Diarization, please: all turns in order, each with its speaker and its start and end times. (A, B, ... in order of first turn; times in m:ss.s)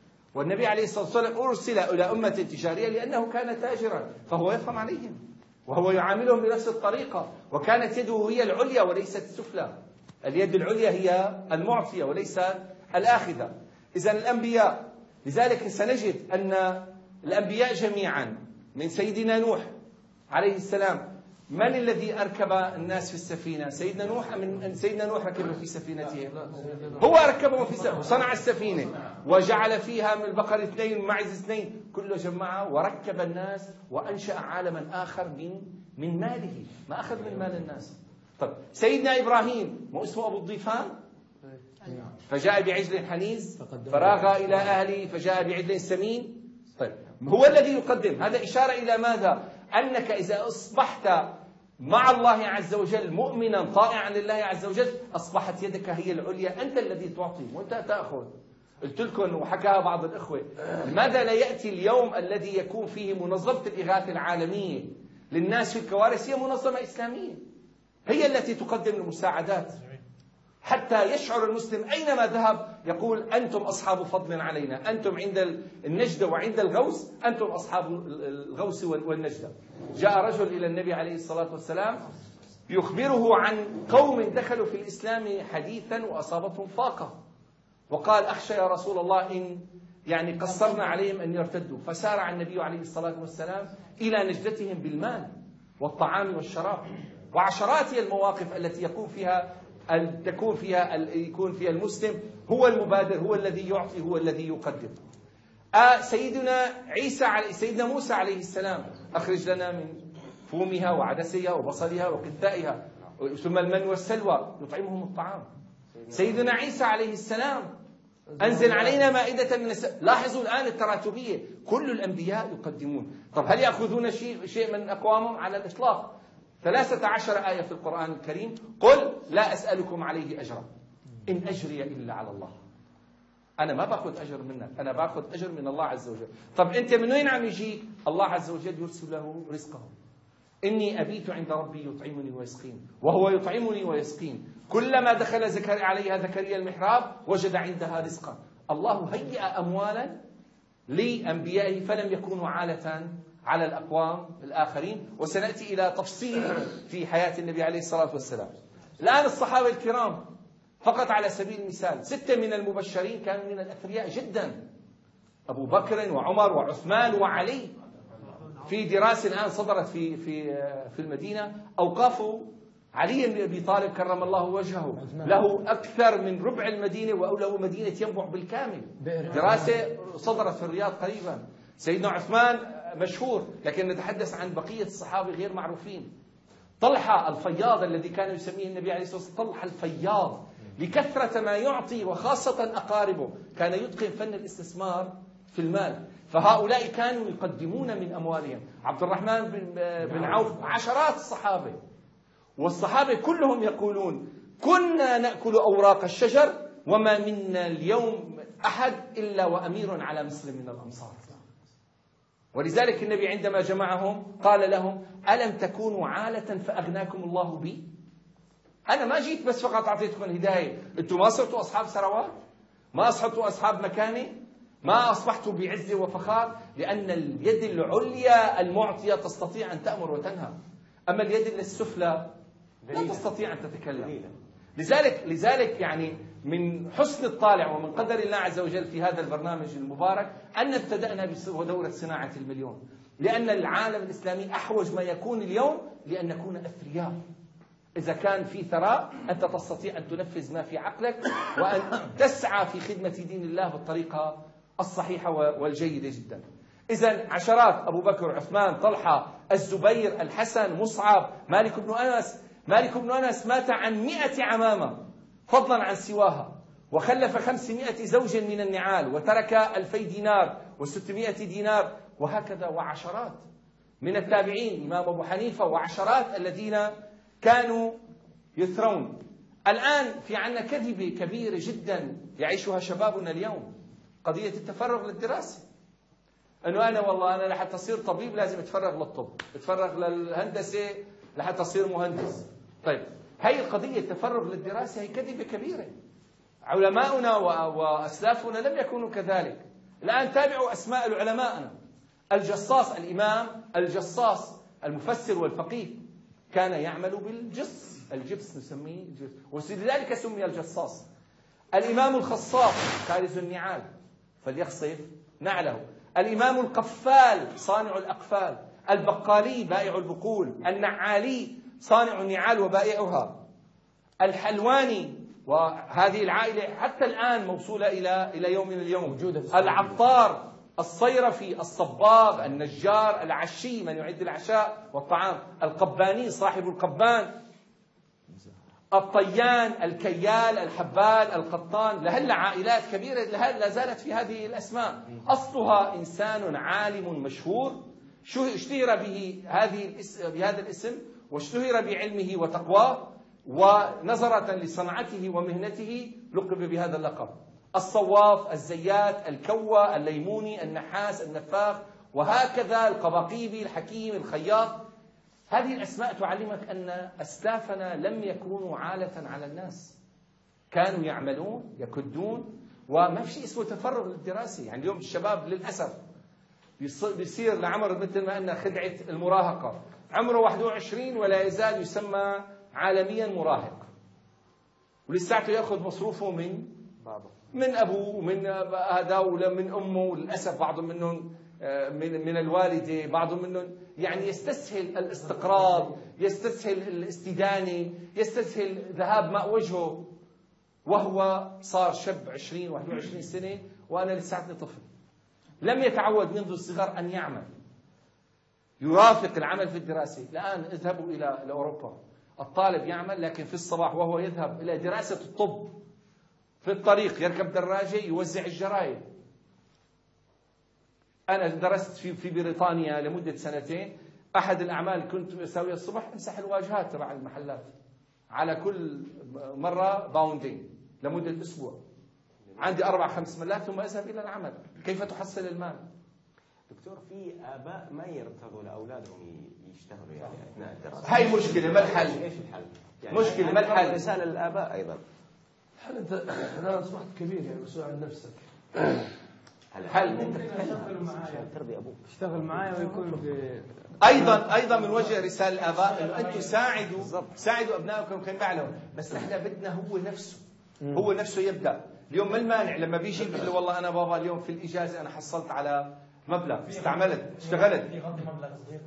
0:00.3-0:19.7 A
0:20.3-0:40.9 A
0:26.5-0:27.0 B
0:42.2-1:07.4 A
0:43.7-0:44.3 B
1:08.1-1:09.8 A
1:10.6-1:22.0 A
1:22.7-1:27.2 A
1:27.9-1:45.0 A
1:45.7-1:55.5 A
1:56.1-1:57.7 A
1:58.3-1:59.0 B
1:58.4-2:10.7 A
2:11.2-2:12.6 A
2:13.6-2:19.9 A
2:20.6-2:30.2 A
2:30.9-2:40.3 A
2:40.8-2:44.6 A
2:45.5-2:47.7 A
2:48.6-3:06.1 A
2:55.0-2:55.3 B
2:59.0-2:59.7 B
3:06.8-3:21.8 A
3:22.6-3:31.4 A
3:32.5-3:37.9 A
3:38.9-3:42.3 A
3:42.9-3:50.6 A
3:51.1-3:52.3 A
3:52.8-3:53.2 C
3:52.9-3:54.2 A
3:54.0-3:54.3 C
3:54.8-4:07.2 A
4:08.0-4:33.4 A
4:34.0-4:38.0 A
4:38.6-4:45.6 A
4:46.6-4:55.9 A
4:56.6-5:01.8 A
5:02.3-5:11.0 A
5:11.7-5:13.9 A
5:14.4-5:23.4 A
5:24.2-5:37.3 A
5:29.2-5:29.8 B
5:38.9-6:04.8 A
6:05.5-6:09.9 A
6:10.7-6:16.0 A
6:16.8-6:23.8 A
6:25.1-6:26.8 A
6:27.5-6:40.1 A
6:40.8-6:44.9 A
6:45.6-6:47.5 A
6:48.8-6:55.8 A
6:56.6-6:59.0 A
7:01.3-7:07.7 A
7:08.3-7:11.8 A
7:12.6-7:15.8 A
7:16.7-7:25.0 C
7:21.0-7:22.2 A
7:23.1-7:24.0 A
7:25.8-7:28.4 D
7:29.7-7:32.7 C
7:29.9-7:30.4 A
7:30.0-7:31.5 B
7:32.1-7:34.4 B
7:34.0-7:47.9 A
7:37.0-7:37.3 C
7:48.1-7:48.6 B